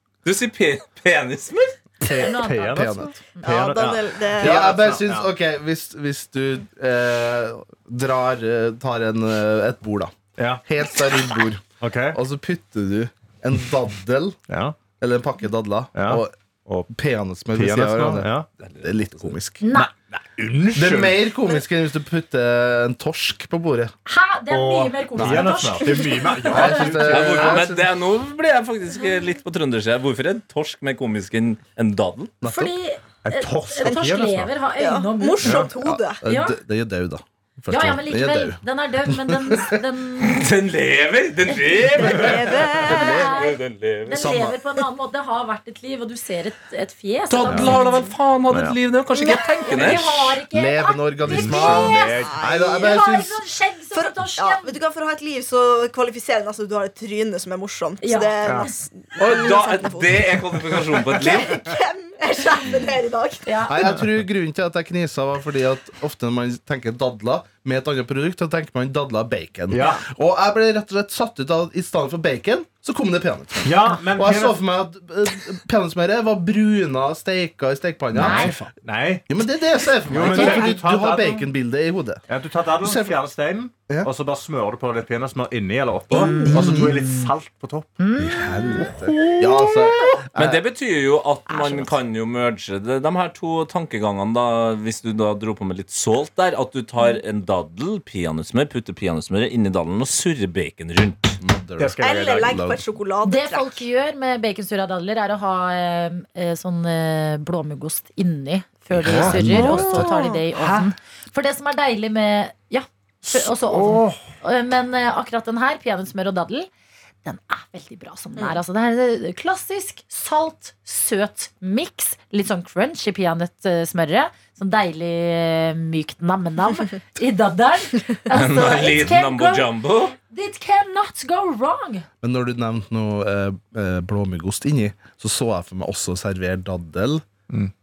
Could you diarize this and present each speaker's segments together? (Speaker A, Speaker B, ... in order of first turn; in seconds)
Speaker A: 0.2-1.8, 18.6-19.4, 27.1-32.3, 40.2-44.2, 47.3-50.4, 59.2-61.6, 78.3-78.7, 90.4-101.4, 128.3-130.1
Speaker B: 2.0-3.1, 4.4-14.4, 15.0-16.3, 16.9-18.3, 18.8-19.6, 20.8-23.9, 25.2-25.7, 26.5-27.9, 32.4-32.7, 35.8-39.8, 42.3-43.5, 44.1-44.6, 47.5-47.8, 50.5-53.4, 63.7-78.6, 79.3-82.2, 82.8-83.2, 86.5-86.9, 88.2-90.6, 101.4-102.8, 109.0-110.2, 132.2-137.3
Speaker C: 2.1-3.5, 19.6-19.9, 24.1-26.9, 32.4-35.6, 36.2-36.6, 37.7-40.4, 42.9-48.0, 49.2-52.2, 52.8-54.8, 58.0-58.8, 63.5-63.8, 78.2-78.6, 80.3-81.3, 86.1-87.3, 88.0-89.0, 89.7-90.1, 91.5-91.9, 103.2-116.7, 117.2-132.1
Speaker D: 2.3-5.3, 10.4-10.6, 11.8-12.2, 14.5-14.8, 15.9-16.9, 17.6-18.5, 19.7-21.2, 24.5-27.6, 33.2-34.5, 35.4-35.7, 48.5-48.8, 51.2-52.7, 58.4-58.7, 69.7-70.0, 73.6-74.6, 78.2-79.3, 80.1-81.4, 82.3-88.0, 101.8-102.6, 109.1-110.0, 113.3-114.2
Speaker E: 3.4-4.8, 34.8-36.2, 42.0-43.3, 47.7-48.1, 49.2-49.9, 51.6-53.0, 53.9-63.6, 86.1-86.5, 102.0-103.8